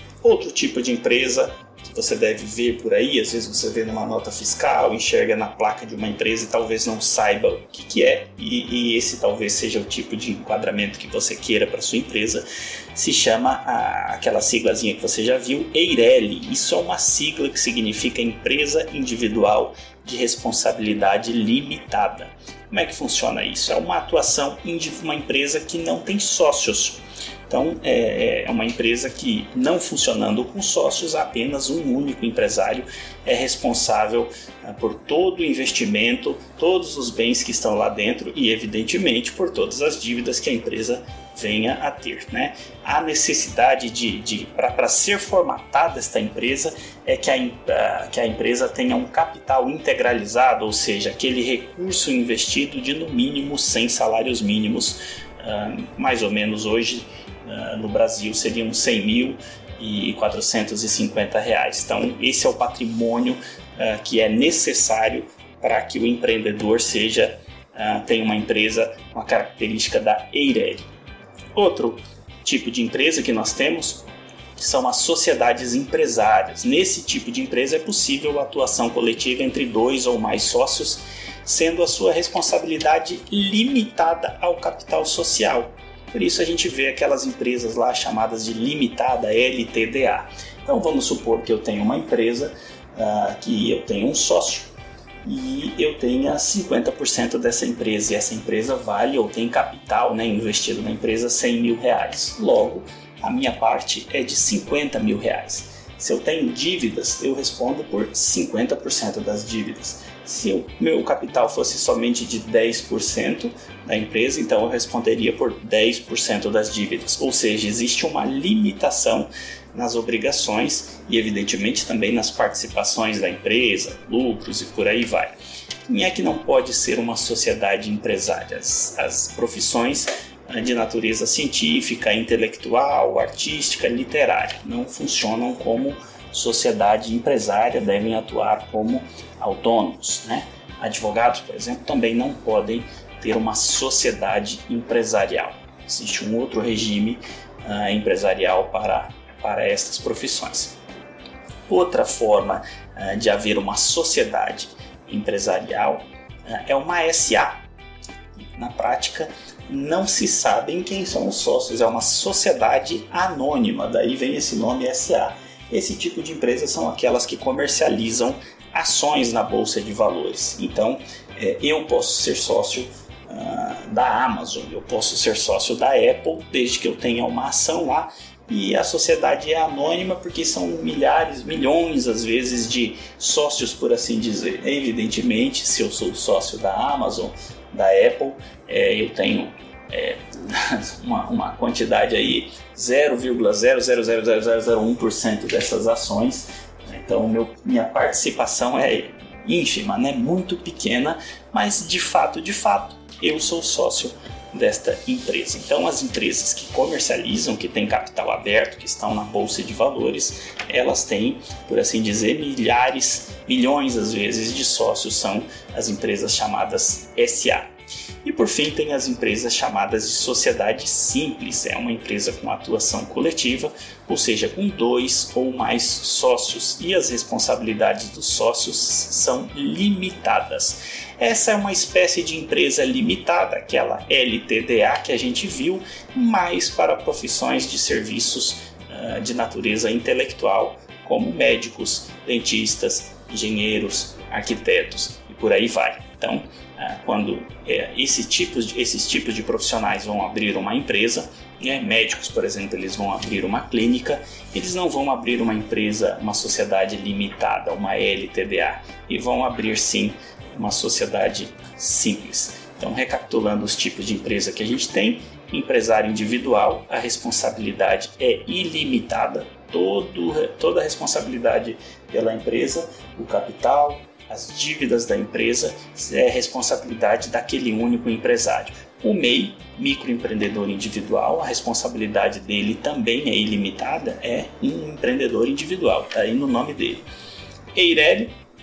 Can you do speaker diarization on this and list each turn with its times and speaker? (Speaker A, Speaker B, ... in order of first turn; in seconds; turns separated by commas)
Speaker A: 0.2-70.8, Speaker A: 71.5-74.0, Speaker A: 74.6-94.7, Speaker A: 95.2-125.3, Speaker A: 125.9-150.8, Speaker A: 151.7-157.6, Speaker A: 158.6-217.7, Speaker A: 218.2-287.0, Speaker A: 287.7-288.3